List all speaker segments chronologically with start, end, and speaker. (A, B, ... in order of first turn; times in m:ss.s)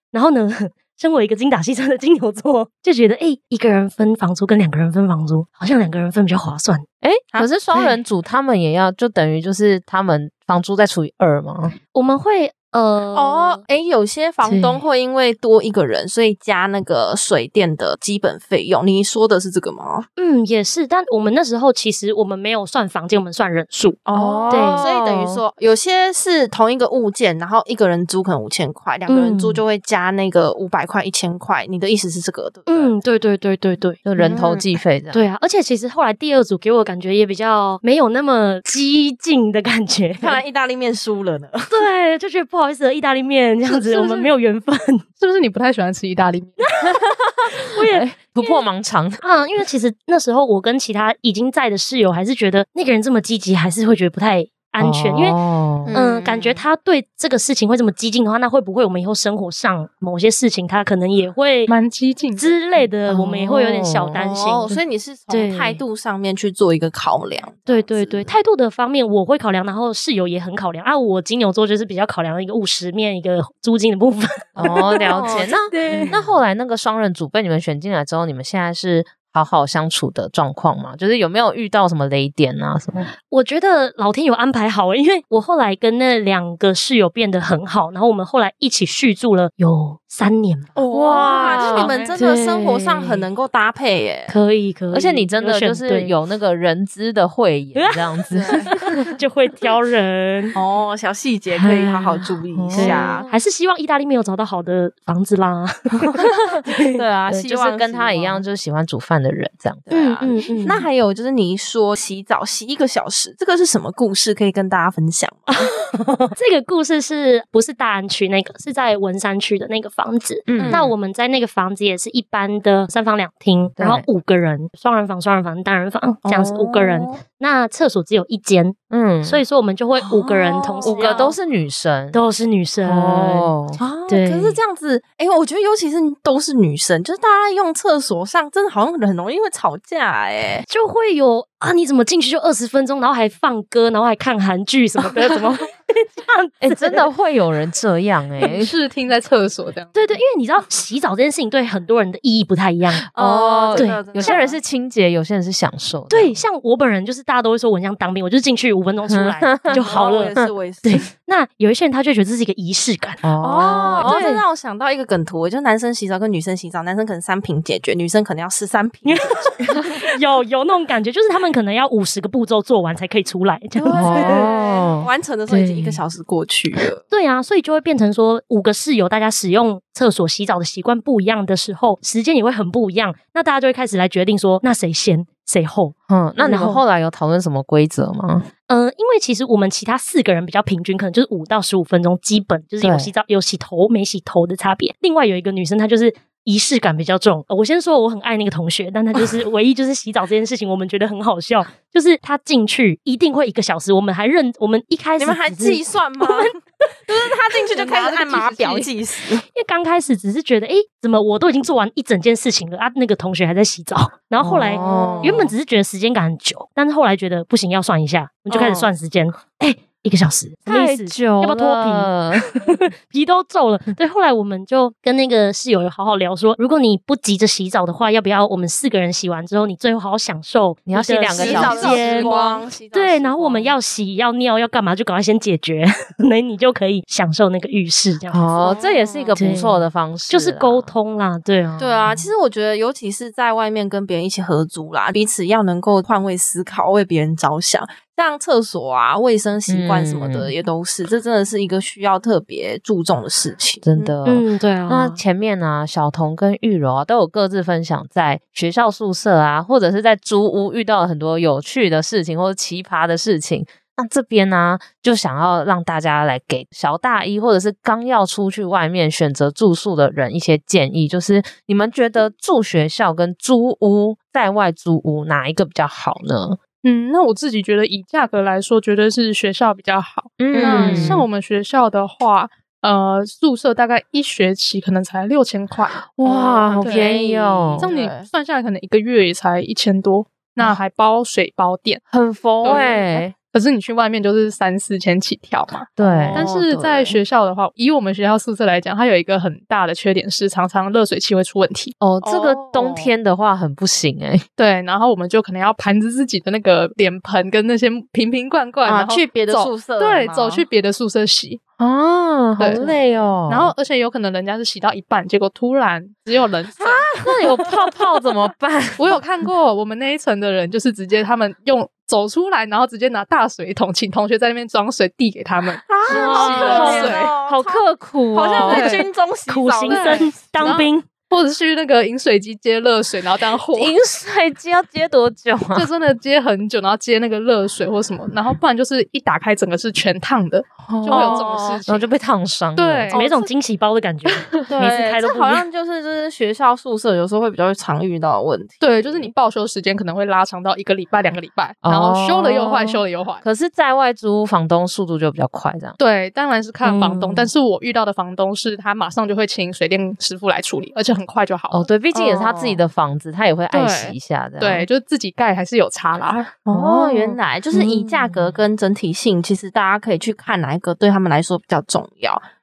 0:00.1-0:06.8 A
0:07.0-0:11.8 B
0:11.9-0:13.6 A
0:13.1-0:20.1 C
0:14.4-0:14.8 A
0:20.2-0:24.8 A
0:24.0-0:32.9 C
0:24.1-0:25.4 B
0:29.1-0:29.6 A
0:32.7-0:34.0 A
0:34.0-0:35.2 B
0:34.2-0:34.7 C
0:35.1-0:40.4 A
0:40.2-0:41.8 C
0:41.7-0:45.0 A
0:43.8-0:44.2 C
0:45.2-0:46.7 D
0:46.6-0:47.0 A
0:47.4-0:49.2 B
0:47.6-0:48.6 A
0:49.2-0:55.4 A
0:54.8-0:55.9 B
0:55.8-0:56.6 C
0:55.9-1:01.7 A
1:01.7-1:02.5 D
1:02.4-1:04.8 A
1:03.1-1:04.8 B
1:04.1-1:08.3 C
1:05.3-1:05.8 A
1:07.7-1:16.1 A
1:14.6-1:16.3 C
1:14.6-1:23.1 B
1:23.3-1:30.7 A
1:30.8-1:34.3 C
1:30.9-1:32.0 B
1:31.4-1:33.2 A
1:34.3-1:36.1 A
1:34.9-1:38.9 B
1:37.8-1:40.6 A
1:38.3-1:38.7 C
1:40.5-1:43.3 C
1:41.6-1:42.1 A
1:42.5-1:43.3 B
1:42.7-1:47.0 A
1:46.2-1:48.4 C
1:47.0-1:50.2 B
1:49.9-1:55.7 C
1:49.9-1:50.8 A
1:56.3-2:11.3 A
2:00.5-2:00.9 B
2:00.5-2:00.9 C
2:03.8-2:04.0 B
2:06.2-2:07.2 C
2:08.9-2:09.4 B
2:10.0-2:11.3 C
2:10.8-2:12.2 B
2:12.1-2:13.5 A
2:12.8-2:13.8 B
2:13.8-2:20.6 C
2:14.1-2:14.6 A
2:20.7-2:27.0 A
2:26.6-2:28.7 B
2:28.4-2:30.2 D
2:29.9-2:33.0 A
2:33.1-2:34.6 C
2:33.1-2:36.4 B
2:33.7-2:34.4 A
2:36.1-2:44.4 A
2:39.1-2:39.8 B
2:39.7-2:41.1 C
2:43.2-2:44.4 B
2:43.4-2:49.9 C
2:49.0-2:54.5 A
2:53.8-2:57.0 C
2:53.9-2:55.1 B
2:55.5-2:56.0 A
2:57.1-3:06.8 A
3:06.1-3:08.5 B
3:08.7-3:26.5 A
3:12.8-3:13.1 B
3:25.2-3:26.5 C
3:27.1-3:29.4 C
3:27.7-3:28.9 A
3:29.5-3:58.4 A
3:34.4-3:35.5 B
3:34.6-3:35.5 C
3:38.5-3:38.9 C
3:40.7-3:42.6 B
3:50.9-3:52.6 B
3:51.3-3:53.7 C
3:58.3-4:00.9 B
3:58.5-3:59.4 C
3:59.4-4:02.0 A
4:01.8-4:14.1 C
4:09.7-4:10.5 B
4:13.8-4:36.6 B
4:14.2-4:15.2 A
4:36.8-4:46.0 D
4:40.4-4:41.3 B
4:40.5-4:41.2 C
4:46.1-4:47.9 B
4:46.2-4:48.3 C
4:46.8-4:47.2 D
4:47.8-4:52.0 D
4:52.1-4:53.3 B
4:52.6-5:02.0 D
4:52.6-4:53.2 C
4:56.0-4:56.5 B
4:56.0-4:57.2 C
5:02.0-5:04.4 B
5:02.2-5:03.1 C
5:04.6-5:11.6 D
5:08.8-5:10.6 C
5:11.8-5:13.7 B
5:12.6-5:12.9 D
5:13.5-5:17.1 D
5:16.8-5:17.6 C
5:16.8-5:19.2 B
5:19.0-5:27.3 D
5:25.8-5:30.4 C
5:26.1-5:29.0 B
5:26.1-5:27.1 A
5:28.5-5:29.0 D
5:29.5-5:31.0 A
5:29.9-5:33.9 D
5:33.7-5:35.9 B
5:35.7-5:42.0 D
5:40.9-5:43.1 B
5:41.1-5:41.8 C
5:42.8-5:43.4 D
5:43.1-5:45.6 A
5:44.7-5:49.3 C
5:48.8-5:53.4 D
5:51.8-5:56.0 B
5:56.0-6:01.9 D
6:01.7-6:04.9 B
6:02.1-6:02.8 C
6:03.7-6:04.1 C
6:04.6-6:06.6 D
6:06.6-6:12.4 C
6:06.7-6:08.6 B